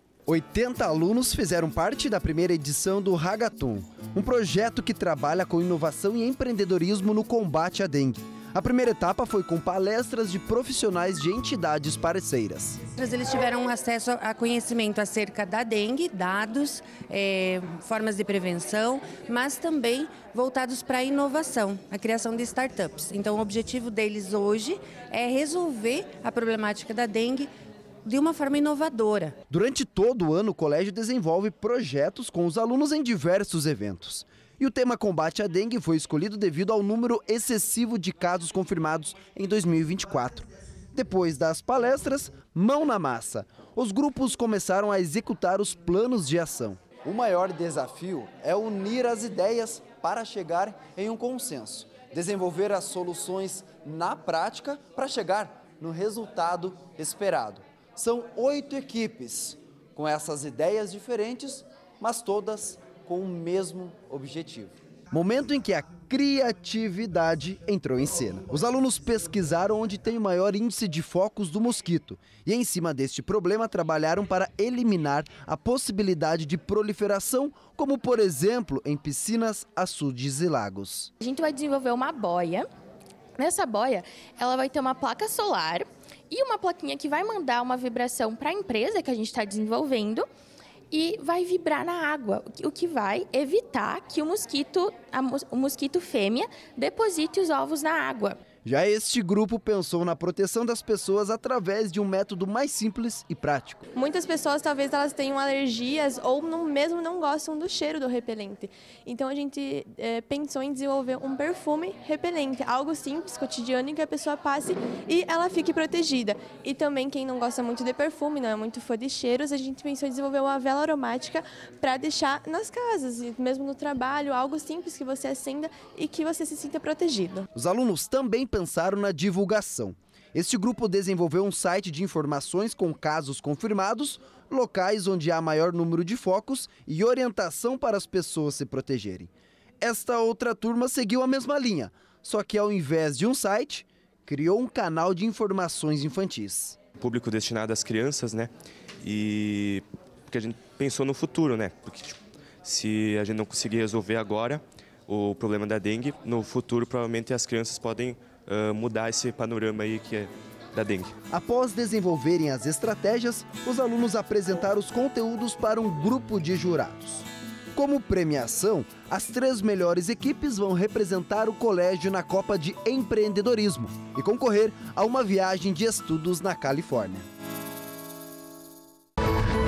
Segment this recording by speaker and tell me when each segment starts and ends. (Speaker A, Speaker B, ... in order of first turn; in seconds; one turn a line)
Speaker A: 0.3-12.8
Speaker B: 12.9-27.5
Speaker B: 28.0-29.4
Speaker A: 29.5-81.1
Speaker C: 81.2-82.7
Speaker C: 83.4-90.2
Speaker C: 90.9-98.4
Speaker A: 98.6-103.8
Speaker D: 103.9-127.5
Speaker A: 127.5-139.3
Speaker A: 139.8-146.8
Speaker E: 147.0-148.5
Speaker E: 149.0-161.1
Speaker A: 161.3-177.2